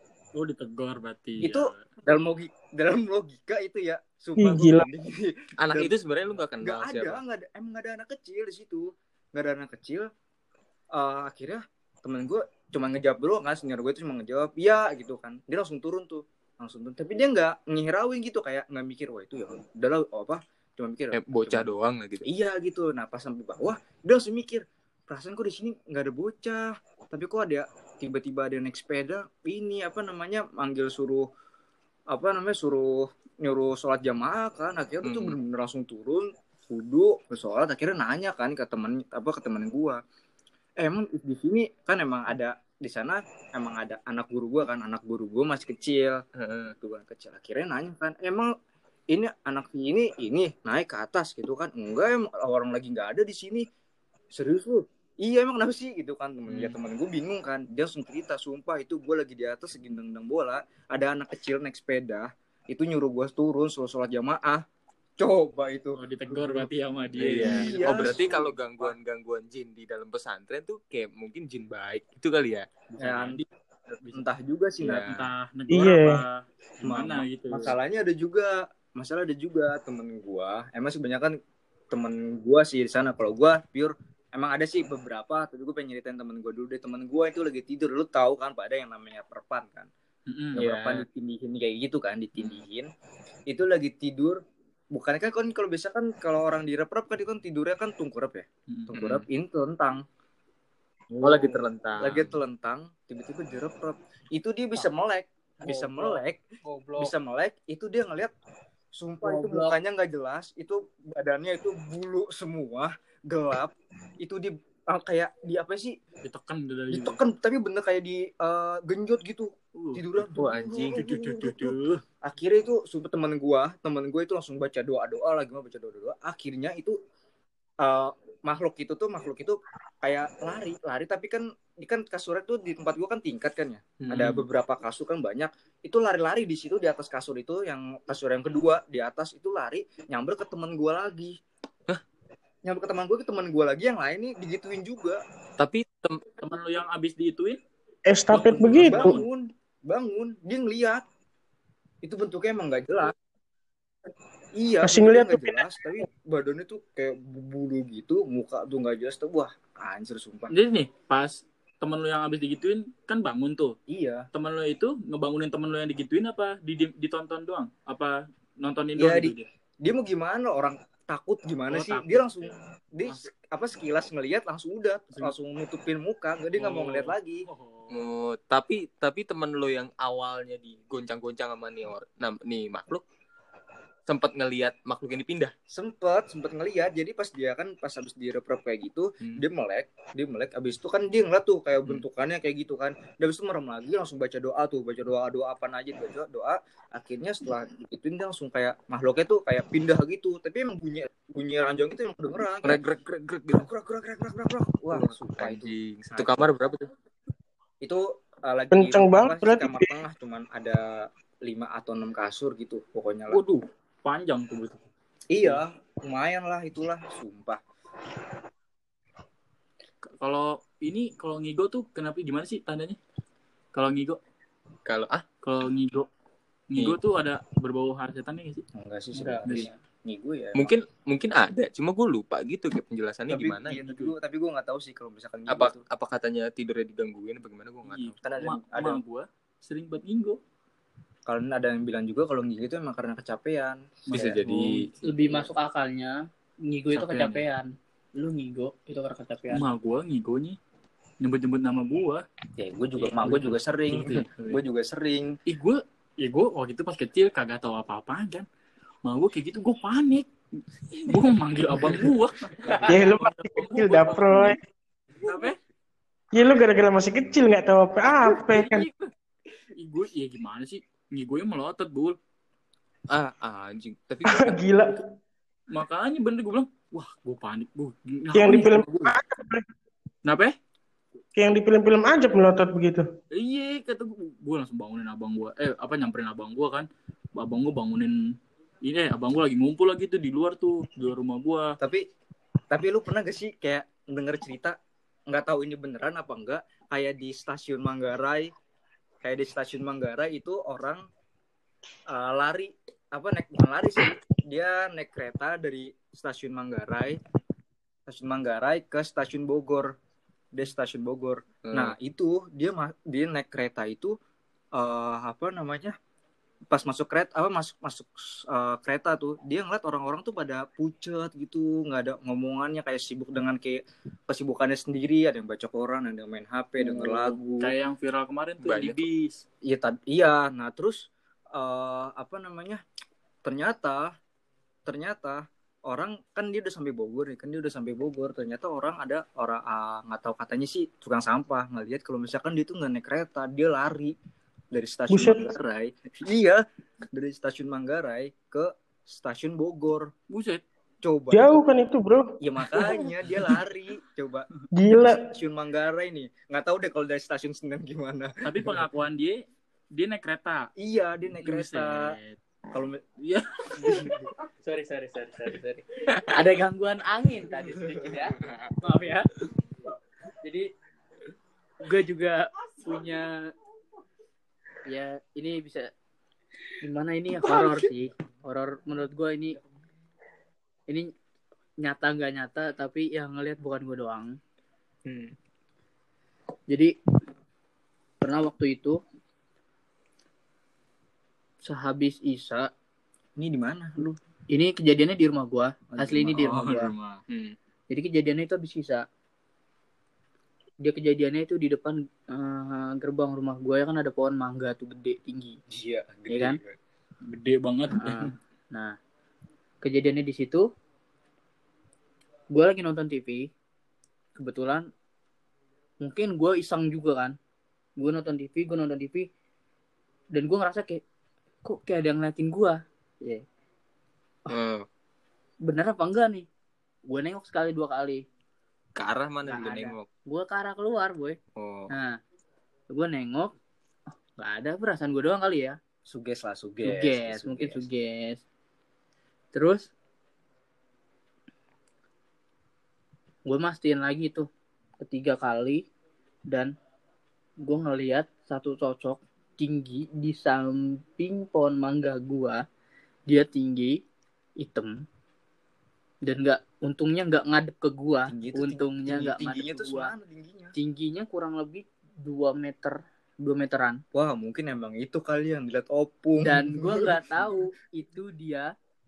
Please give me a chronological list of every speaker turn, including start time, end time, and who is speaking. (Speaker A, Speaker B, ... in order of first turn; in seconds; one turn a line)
Speaker A: 0.3-1.8
Speaker B: 1.4-5.9
Speaker C: 4.4-4.9
Speaker D: 5.6-7.2
Speaker B: 6.6-10.1
Speaker B: 10.9-21.7
Speaker D: 21.1-22.3
Speaker B: 22.2-31.3
Speaker B: 32.1-40.0
Speaker D: 35.0-35.4
Speaker B: 40.8-48.5
Speaker D: 46.4-46.7
Speaker B: 49.1-53.7
Speaker B: 54.3-64.6
Speaker A: 56.5-56.8
Speaker B: 65.2-66.7
Speaker A: 66.0-68.1
Speaker D: 67.2-72.7
Speaker B: 67.3-68.9
Speaker A: 72.9-74.2
Speaker B: 73.0-73.4
Speaker B: 74.1-75.1
Speaker A: 74.8-77.8
Speaker D: 74.8-75.2
Speaker C: 75.7-76.2
Speaker B: 76.8-81.4
Speaker B: 81.9-89.9
Speaker A: 90.3-91.0
Speaker B: 90.5-92.9
Speaker B: 93.5-100.0
Speaker D: 98.9-99.2
Speaker B: 101.1-106.4
Speaker D: 101.2-102.3
Speaker E: 105.6-107.1
Speaker B: 107.0-108.3
Speaker B: 109.0-115.9
Speaker E: 109.2-109.8
Speaker A: 116.2-117.2
Speaker B: 116.9-127.0
Speaker A: 119.7-120.0
Speaker D: 120.3-121.0
Speaker A: 120.9-122.0
Speaker B: 127.8-141.4
Speaker D: 134.0-134.4
Speaker B: 142.6-145.2
Speaker D: 145.6-146.2
Speaker A: 146.4-147.6
Speaker C: 148.1-149.2
Speaker A: 148.3-149.3
Speaker B: 148.8-151.0
Speaker B: 152.0-153.1
Speaker B: 154.6-160.5
Speaker C: 154.8-155.7
Speaker A: 160.5-163.7
Speaker B: 163.9-164.2
Speaker A: 164.3-169.5
Speaker B: 169.0-177.4
Speaker A: 171.7-172.5
Speaker A: 176.5-178.1
Speaker D: 177.9-183.0
Speaker D: 184.1-185.5
Speaker B: 185.7-202.8
Speaker D: 202.6-203.7
Speaker B: 203.5-206.4
Speaker D: 204.9-206.9
Speaker B: 207.8-213.4
Speaker C: 208.7-210.0
Speaker A: 213.3-214.9
Speaker B: 215.3-217.6
Speaker A: 220.0-223.0
Speaker A: 223.7-224.2
Speaker D: 224.9-225.2
Speaker A: 225.4-226.1
Speaker A: 226.7-228.6
Speaker B: 228.7-230.8
Speaker E: 229.1-229.8
Speaker D: 230.5-233.8
Speaker B: 233.3-235.8
Speaker A: 233.7-234.1
Speaker D: 235.5-238.2
Speaker A: 237.8-240.4
Speaker B: 238.2-239.0
Speaker B: 241.3-244.4
Speaker A: 244.1-245.1
Speaker D: 244.1-244.9
Speaker E: 245.0-249.7
Speaker A: 246.9-247.4
Speaker A: 249.5-250.6
Speaker A: 251.2-252.2
Speaker B: 252.6-255.3
Speaker A: 253.0-254.6
Speaker A: 255.5-258.5
Speaker A: 259.0-260.3
Speaker A: 260.9-264.6
Speaker C: 262.9-264.6
Speaker A: 265.2-265.6
Speaker C: 266.3-268.9
Speaker A: 268.2-269.1
Speaker A: 269.8-272.2
Speaker D: 273.1-274.6
Speaker C: 274.2-275.0
Speaker A: 275.7-279.1
Speaker C: 278.3-279.6
Speaker A: 280.2-280.5
Speaker C: 281.4-283.1
Speaker A: 283.3-288.1
Speaker A: 288.8-291.7
Speaker B: 291.8-292.1
Speaker B: 292.7-294.8
Speaker B: 295.3-298.5
Speaker B: 299.2-301.0
Speaker B: 302.1-307.2
Speaker B: 308.1-309.9
Speaker B: 310.5-314.1
Speaker D: 311.6-311.9
Speaker B: 314.7-315.9
Speaker B: 316.7-327.7
Speaker A: 326.8-329.3
Speaker D: 328.6-329.1
Speaker B: 329.6-332.8
Speaker B: 333.4-334.1
Speaker B: 334.9-344.1
Speaker B: 344.7-350.1
Speaker C: 345.1-345.5
Speaker A: 350.3-350.6
Speaker B: 351.0-351.6
Speaker C: 351.3-353.1
Speaker B: 352.4-358.8
Speaker C: 354.7-355.2
Speaker A: 358.4-359.4
Speaker A: 359.9-360.7
Speaker B: 360.8-362.1
Speaker A: 361.4-362.4
Speaker B: 362.7-363.0
Speaker A: 363.2-365.6
Speaker B: 363.8-364.1
Speaker E: 365.4-369.3
Speaker E: 370.4-370.7
Speaker E: 371.8-373.4
Speaker E: 374.9-375.9
Speaker E: 376.8-379.6
Speaker E: 381.8-384.3
Speaker D: 385.1-385.3
Speaker E: 388.2-389.0
Speaker E: 391.6-392.7
Speaker B: 393.4-394.2
Speaker E: 394.5-396.9
Speaker A: 396.0-397.2
Speaker D: 397.3-397.5
Speaker E: 397.9-399.0
Speaker E: 400.8-405.6
Speaker B: 405.7-406.8
Speaker E: 406.3-406.6
Speaker A: 407.3-408.3
Speaker E: 407.9-408.9
Speaker E: 409.8-410.7
Speaker E: 412.5-413.4
Speaker E: 414.4-414.9
Speaker E: 416.0-417.3
Speaker E: 418.0-419.3
Speaker E: 420.3-421.0
Speaker E: 421.6-423.4
Speaker D: 424.5-424.9
Speaker E: 425.6-426.4
Speaker E: 427.1-428.2
Speaker D: 428.9-430.1
Speaker E: 429.4-431.4
Speaker D: 431.6-431.9
Speaker E: 431.9-432.2
Speaker E: 432.9-433.5
Speaker E: 434.4-435.8
Speaker B: 436.1-437.8
Speaker E: 436.8-438.4
Speaker E: 439.5-439.9
Speaker E: 443.4-444.5
Speaker E: 445.0-445.8
Speaker E: 447.6-452.6
Speaker E: 453.3-454.0
Speaker E: 454.6-455.0
Speaker E: 456.2-460.1
Speaker B: 458.3-460.7
Speaker E: 460.7-464.0
Speaker B: 464.1-467.2
Speaker E: 466.4-468.7